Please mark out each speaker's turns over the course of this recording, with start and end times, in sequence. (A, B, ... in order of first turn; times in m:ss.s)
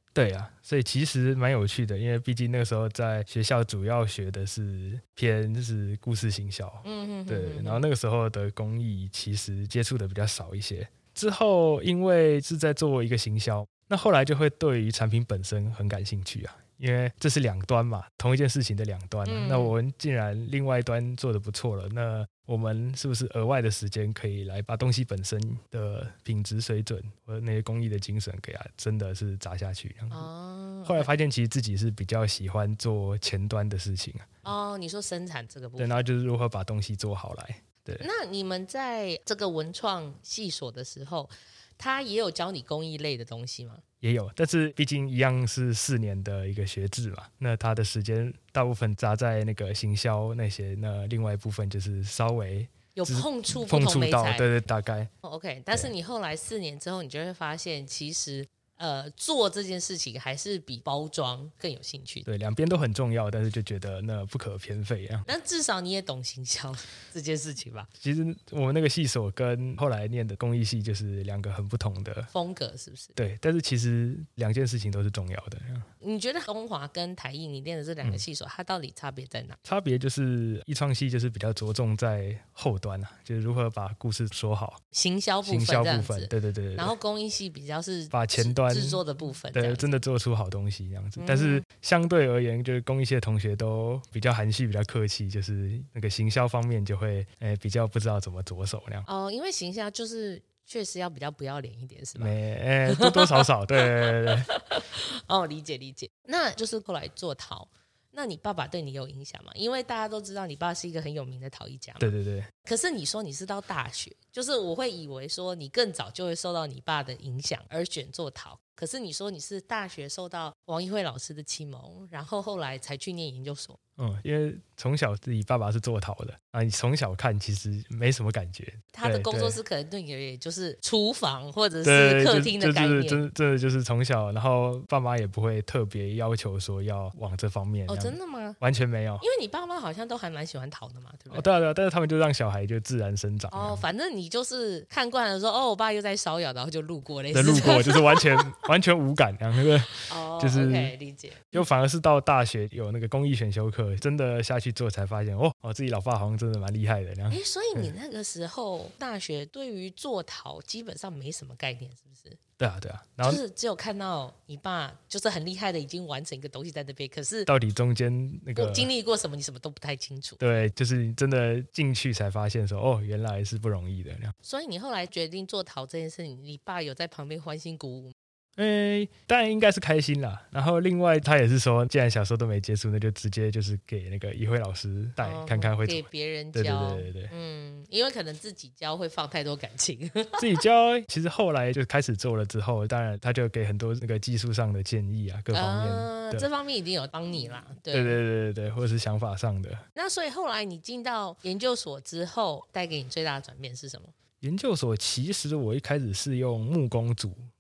0:00.2-0:30.3 A
0:06.8-0:07.9 B
0:19.2-0:19.8 B
0:30.1-0:31.1 B
0:30.9-0:34.5 A
0:34.4-0:36.0 B
0:35.8-0:38.0 A
0:38.0-0:43.8 B
0:44.0-0:55.1 A
0:53.0-0:54.5 B
0:55.2-1:02.3 B
1:02.3-1:05.3 A
1:05.3-1:07.9 B
1:08.0-1:12.3 A
1:12.3-1:13.2 B
1:13.2-1:15.9 A
1:16.0-1:19.6 B
1:19.6-1:24.8 A
1:24.9-1:30.0 B
1:25.4-1:26.9 A
1:28.1-1:29.0 A
1:29.5-1:39.1 A
1:31.2-1:31.6 B
1:39.0-1:52.1 B
1:42.2-1:44.5 A
1:52.0-1:52.5 A
1:52.6-2:03.8 B
2:04.0-2:09.6 A
2:08.9-2:13.3 B
2:11.8-2:19.2 A
2:17.9-2:18.6 B
2:19.2-2:21.5 B
2:21.3-2:23.8 A
2:23.5-2:28.6 B
2:27.3-2:30.9 A
2:29.9-2:31.6 B
2:31.5-2:37.9 A
2:37.3-2:42.4 B
2:42.6-2:43.4 A
2:43.2-2:47.5 B
2:47.5-2:48.9 A
2:48.6-2:50.4 B
2:50.4-2:54.3 A
2:54.4-2:58.1 B
2:58.6-3:07.3 A
3:05.2-3:10.4 B
3:10.4-3:16.5 A
3:15.5-3:18.2 B
3:17.9-3:19.8 A
3:20.0-3:24.1 B
3:24.4-3:27.4 A